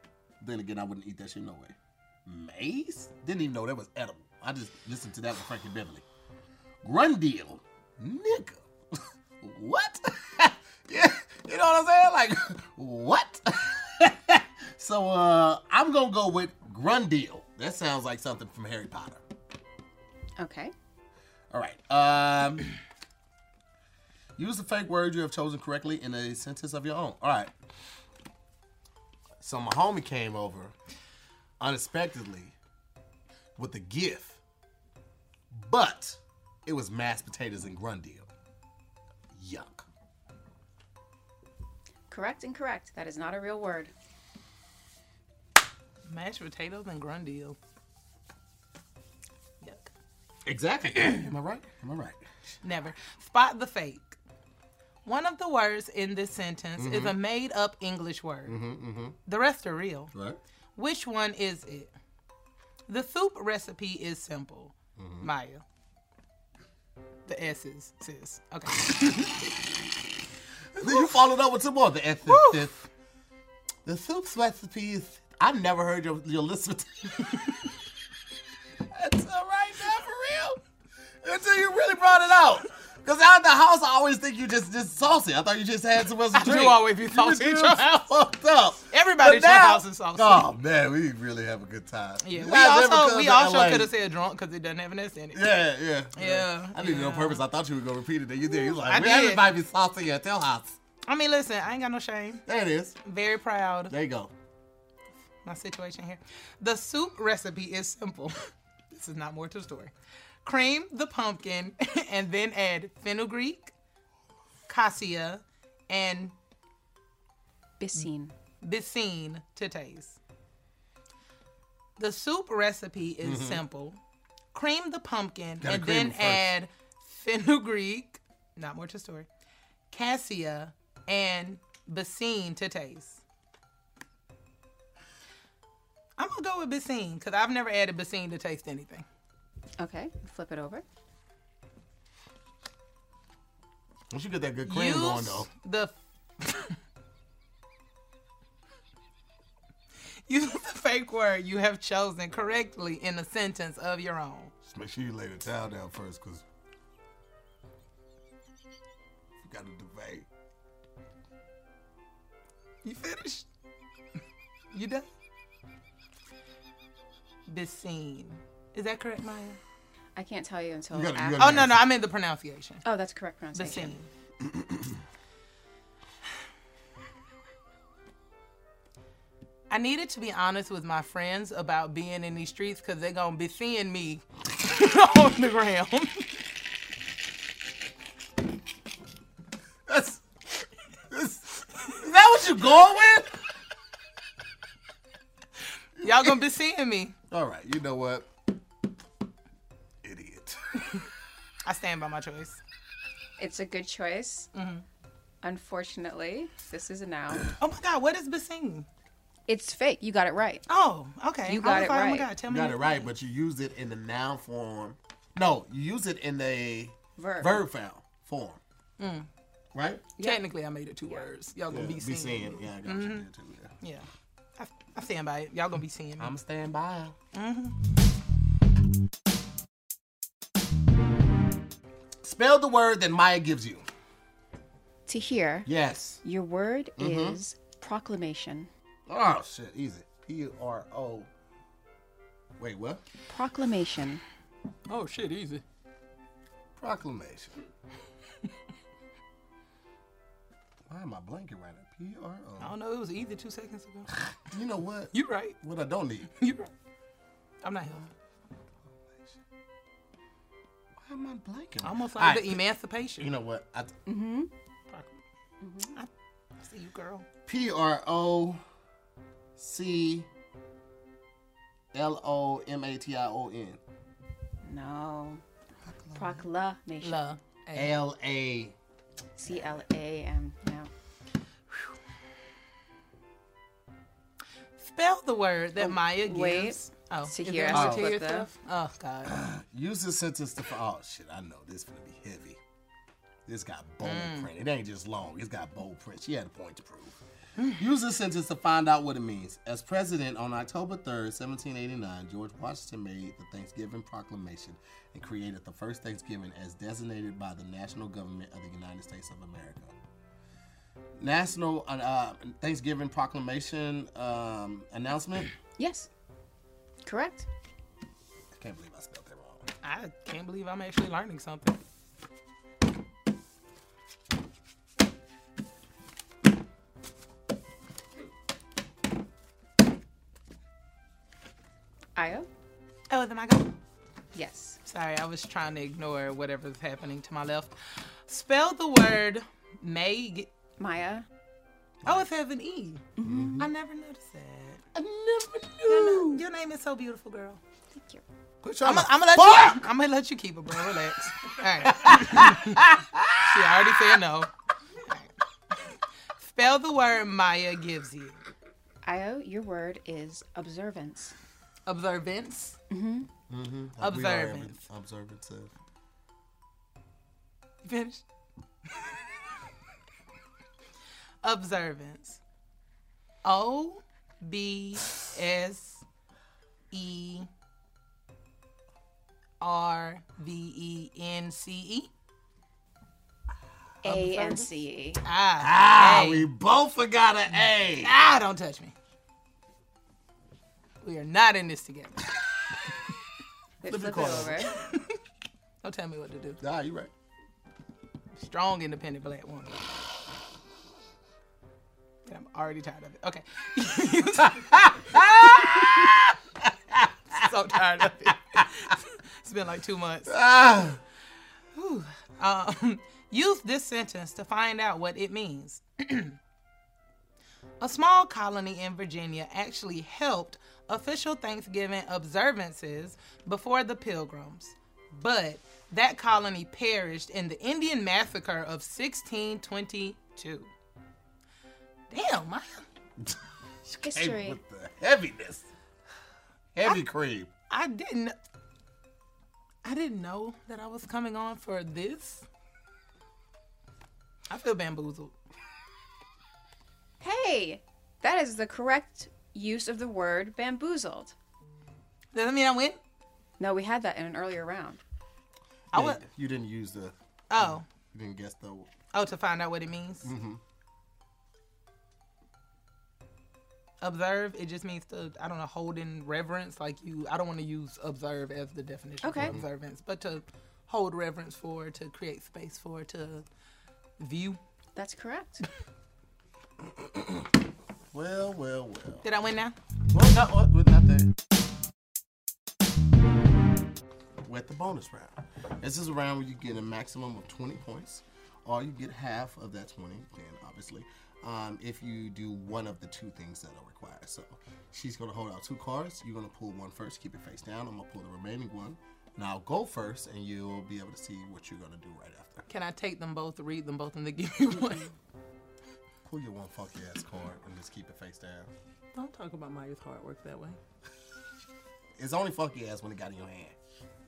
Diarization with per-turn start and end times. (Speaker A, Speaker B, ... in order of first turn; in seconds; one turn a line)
Speaker A: 0.4-1.7
Speaker A: 2.2-6.0
Speaker A: 6.8-8.6
Speaker A: 9.4-19.2
Speaker B: 20.4-20.7
Speaker A: 21.5-22.7
Speaker A: 24.4-27.5
Speaker A: 29.4-30.7
Speaker A: 31.6-32.5
Speaker A: 33.5-34.4
Speaker A: 35.5-38.3
Speaker A: 39.3-39.9
Speaker B: 42.1-43.9
Speaker C: 46.1-47.6
Speaker C: 49.6-49.9
Speaker A: 50.5-52.5
Speaker C: 52.6-54.2
Speaker C: 55.0-58.6
Speaker A: 56.8-57.1
Speaker A: 58.5-59.1
Speaker C: 59.2-60.1
Speaker A: 60.1-60.4
Speaker C: 60.8-61.9
Speaker C: 62.9-65.6
Speaker A: 65.0-65.3
Speaker C: 67.3-69.5
Speaker A: 70.7-72.8
Speaker C: 70.8-71.2
Speaker C: 72.3-72.7
Speaker A: 73.8-77.4
Speaker A: 78.9-80.6
Speaker A: 81.2-93.9
Speaker C: 86.3-88.1
Speaker C: 88.9-90.5
Speaker C: 92.2-95.5
Speaker A: 95.3-100.8
Speaker C: 96.2-97.4
Speaker C: 98.5-99.5
Speaker C: 101.0-102.4
Speaker A: 102.5-103.0
Speaker C: 103.0-103.9
Speaker A: 103.9-104.3
Speaker C: 105.4-109.9
Speaker C: 110.4-113.7
Speaker C: 114.7-116.3
Speaker B: 117.8-118.3
Speaker C: 118.6-120.2
Speaker C: 122.0-124.0
Speaker A: 123.2-123.6
Speaker C: 124.5-129.3
Speaker A: 125.6-126.5
Speaker C: 129.9-133.2
Speaker C: 136.2-139.1
Speaker B: 139.8-140.8
Speaker A: 144.1-145.5
Speaker C: 144.7-146.8
Speaker C: 150.3-154.5
Speaker A: 154.6-156.4
Speaker A: 159.4-160.3
Speaker C: 162.8-163.4
Speaker C: 164.7-165.1
Speaker C: 167.5-169.6
Speaker B: 170.1-171.7
Speaker A: 170.9-171.8
Speaker C: 171.4-172.8
Speaker B: 172.8-174.0
Speaker C: 173.5-174.1
Speaker A: 174.4-174.9
Speaker C: 179.7-186.3
Speaker A: 189.9-190.2
Speaker A: 191.1-193.3
Speaker A: 196.0-196.3
Speaker C: 196.0-197.1
Speaker A: 197.3-198.3
Speaker A: 200.0-201.0
Speaker C: 201.6-202.6
Speaker B: 203.4-204.5
Speaker C: 204.5-204.8
Speaker B: 205.4-207.4
Speaker C: 207.6-208.9
Speaker B: 209.5-210.6
Speaker C: 210.7-213.1
Speaker B: 211.4-212.3
Speaker A: 212.5-218.6
Speaker B: 217.2-217.6
Speaker C: 219.0-219.3
Speaker A: 219.7-220.0
Speaker B: 220.2-220.4
Speaker C: 220.2-223.2
Speaker A: 221.7-223.7
Speaker C: 223.8-224.1
Speaker C: 224.6-226.3
Speaker A: 226.2-227.2
Speaker C: 227.3-227.8
Speaker A: 232.2-233.9
Speaker B: 235.1-235.7
Speaker A: 235.7-236.2
Speaker B: 236.2-238.7
Speaker A: 237.0-237.4
Speaker A: 239.1-241.3
Speaker A: 242.6-243.0
Speaker B: 243.3-244.2
Speaker C: 244.9-245.6
Speaker A: 246.8-247.6
Speaker A: 250.9-252.7
Speaker C: 252.6-254.1
Speaker A: 254.4-256.3
Speaker C: 255.1-255.6
Speaker C: 256.4-256.7
Speaker C: 257.6-258.0
Speaker A: 259.1-259.4
Speaker A: 261.0-262.6
Speaker C: 261.8-263.3
Speaker A: 263.2-263.9
Speaker B: 264.1-264.5
Speaker C: 264.9-265.2
Speaker B: 265.6-265.9
Speaker C: 265.9-267.2
Speaker A: 267.5-268.6
Speaker A: 269.6-270.3
Speaker A: 271.9-273.8
Speaker B: 274.6-275.4
Speaker B: 276.1-277.2
Speaker C: 277.0-277.9
Speaker A: 277.7-278.7
Speaker B: 279.4-280.9
Speaker C: 284.8-289.4
Speaker B: 285.8-288.5
Speaker A: 287.7-288.1
Speaker A: 289.2-292.6
Speaker A: 293.4-297.2
Speaker C: 294.0-294.5
Speaker A: 297.8-309.9
Speaker A: 311.2-315.5
Speaker B: 315.8-316.1
Speaker B: 317.0-317.5
Speaker A: 318.5-319.6
Speaker C: 319.8-321.8
Speaker B: 332.1-332.5
Speaker C: 333.1-333.7
Speaker B: 334.3-334.8
Speaker C: 334.9-337.7
Speaker C: 338.3-340.5
Speaker B: 340.8-341.3
Speaker C: 342.1-344.8
Speaker B: 343.2-343.7
Speaker A: 343.2-343.6
Speaker A: 344.9-346.4
Speaker C: 345.9-347.6
Speaker B: 347.9-348.2
Speaker A: 348.6-349.8
Speaker C: 348.8-354.5
Speaker A: 351.8-354.1
Speaker C: 355.0-358.4
Speaker B: 359.0-361.3
Speaker C: 361.9-362.8
Speaker B: 362.9-363.3
Speaker A: 363.5-365.7
Speaker C: 364.0-364.8
Speaker C: 367.8-368.2
Speaker C: 371.4-372.4
Speaker C: 373.4-376.0
Speaker C: 376.9-377.5
Speaker C: 379.6-382.1
Speaker B: 384.0-385.2
Speaker C: 384.0-384.7
Speaker C: 385.2-386.5
Speaker A: 385.6-388.1
Speaker C: 387.6-388.9
Speaker C: 391.0-392.2
Speaker B: 393.8-394.7
Speaker A: 393.9-394.7
Speaker C: 394.7-395.2
Speaker C: 395.8-396.6
Speaker A: 396.6-397.1
Speaker C: 398.4-399.8
Speaker C: 402.2-405.8
Speaker A: 404.7-407.4
Speaker C: 407.3-410.4
Speaker A: 410.3-411.0
Speaker C: 411.7-416.4
Speaker C: 417.8-430.7
Speaker C: 432.1-432.8
Speaker A: 433.9-435.7
Speaker B: 434.0-434.6
Speaker A: 436.7-437.5
Speaker C: 437.7-438.3
Speaker C: 439.8-442.4
Speaker C: 444.5-445.3
Speaker B: 447.2-451.3
Speaker C: 452.3-453.0
Speaker B: 453.6-455.0
Speaker C: 455.9-456.2
Speaker A: 455.9-458.9
Speaker C: 457.5-457.8
Speaker C: 459.1-460.3
Speaker A: 460.2-460.6
Speaker C: 464.0-473.4
Speaker B: 469.2-469.6
Speaker A: 469.4-469.6
Speaker C: 474.2-474.6
Speaker B: 474.9-475.6
Speaker A: 476.8-477.5
Speaker A: 478.1-479.2
Speaker C: 479.2-479.8
Speaker A: 480.1-481.3
Speaker A: 484.4-502.6
Speaker C: 502.7-505.1
Speaker A: 506.2-508.7
Speaker C: 509.1-510.8
Speaker A: 512.2-513.7